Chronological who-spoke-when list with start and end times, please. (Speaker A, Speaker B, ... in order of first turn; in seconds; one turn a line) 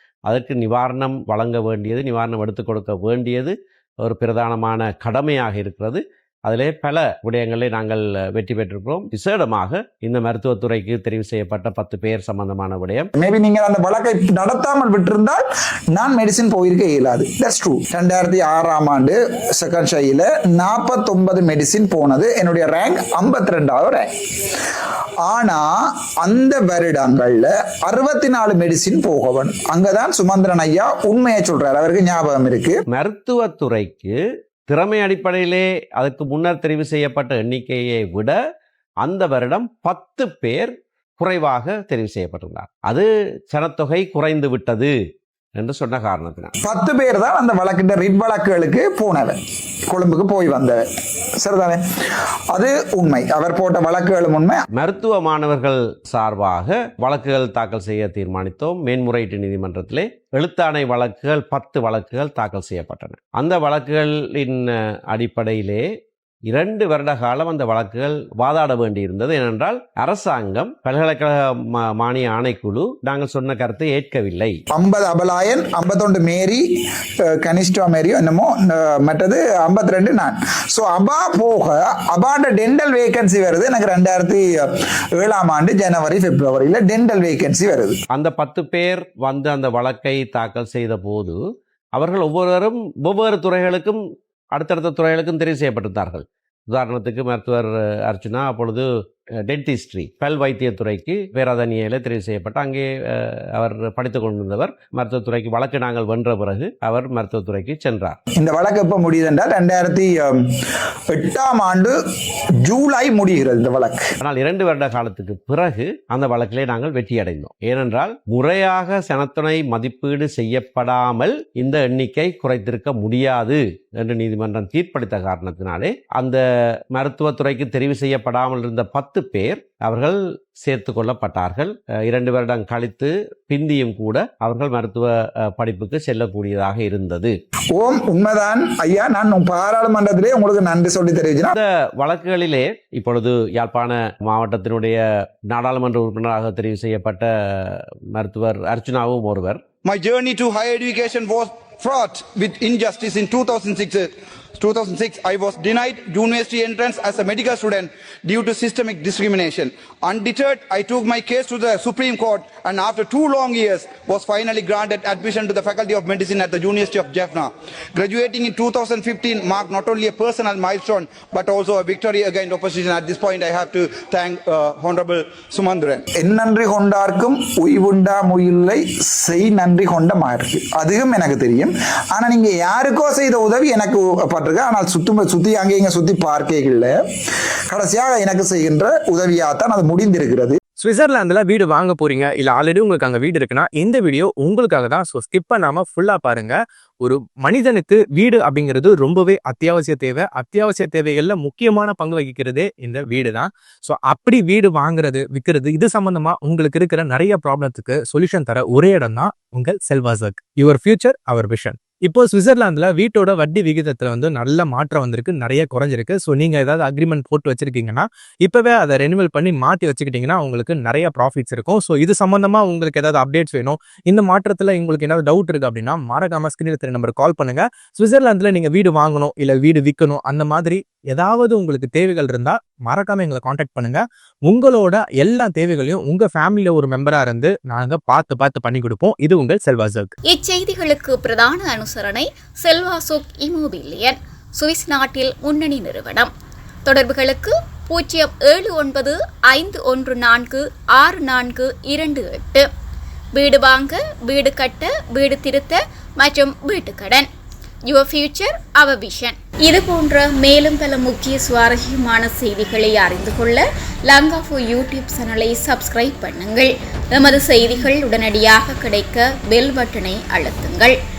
Speaker A: 0.3-13.1
Speaker B: 13.2-24.1
Speaker B: 25.2-25.7
Speaker B: 26.2-32.8
Speaker A: 32.9-34.1
Speaker A: 34.7-38.3
Speaker A: 39.0-44.9
Speaker A: 45.6-46.5
Speaker B: 46.6-49.4
Speaker B: 49.9-50.8
Speaker B: 51.4-51.8
Speaker B: 52.5-54.6
Speaker A: 54.7-65.8
Speaker A: 66.5-74.6
Speaker B: 74.7-76.6
Speaker B: 77.3-88.0
Speaker A: 88.1-91.4
Speaker A: 92.0-94.0
Speaker A: 94.5-98.8
Speaker A: 99.5-108.2
Speaker B: 108.4-110.4
Speaker B: 111.1-112.0
Speaker B: 112.7-114.0
Speaker A: 114.2-126.4
Speaker A: 126.9-137.3
Speaker B: 137.7-141.6
Speaker A: 141.5-145.0
Speaker A: 145.5-149.6
Speaker C: 149.8-176.0
Speaker B: 176.1-186.9
Speaker B: 187.7-190.6
Speaker D: 190.8-240.1
Speaker E: 240.3-246.3
Speaker E: 246.8-252.7
Speaker E: 253.3-257.3
Speaker E: 257.9-270.9